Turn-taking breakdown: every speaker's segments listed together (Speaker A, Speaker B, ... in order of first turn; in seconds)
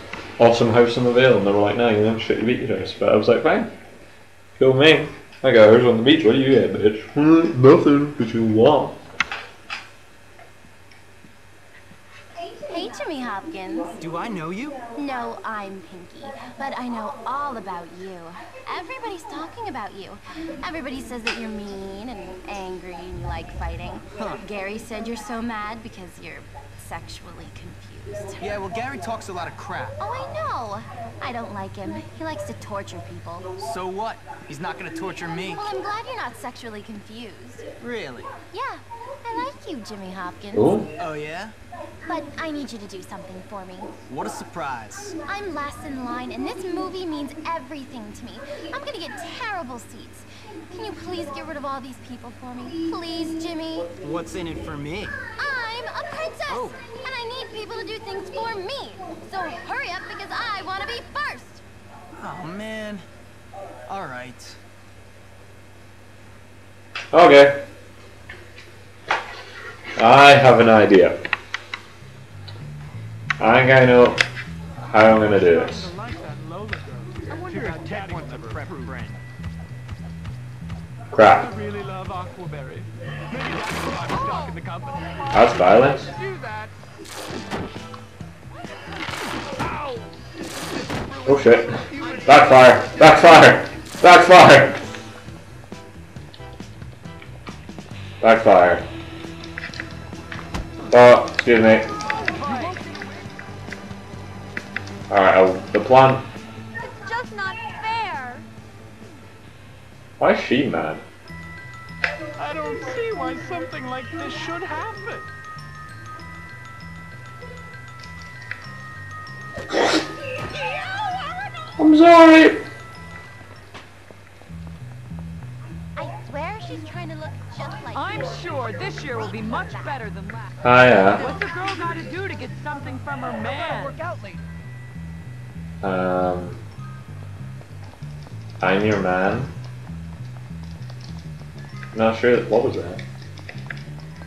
Speaker A: 0.4-3.7, 4.6-9.0, 40.5-40.9, 67.1-67.6, 70.0-71.2, 73.4-74.2, 74.8-75.9, 81.1-81.5, 85.3-86.1, 91.2-94.8, 98.2-98.8, 100.9-101.9, 105.1-106.3, 110.2-111.0, 121.8-122.6, 130.6-131.3, 135.8-136.6, 138.6-139.5, 141.9-143.0
Speaker B: 12.7-14.0, 14.9-28.4, 30.0-33.5, 35.5-37.7, 38.5-40.9, 42.1-43.9, 45.2-53.9, 55.4-61.6, 126.0-130.0
Speaker C: 14.0-14.8, 24.2-24.4, 28.4-30.0, 33.6-35.7, 37.8-38.3, 41.0-41.5, 44.1-45.1, 54.0-55.2, 56.5-56.8, 62.2-63.0, 63.9-64.6, 77.3-79.0, 133.5-134.4
Speaker D: 75.4-79.0, 81.4-85.5, 86.2-86.7, 91.0-93.5, 102.2-103.2, 112.4-115.2
Speaker E: 77.3-78.6, 83.6-84.6, 102.3-103.2, 128.0-130.6, 131.1-133.9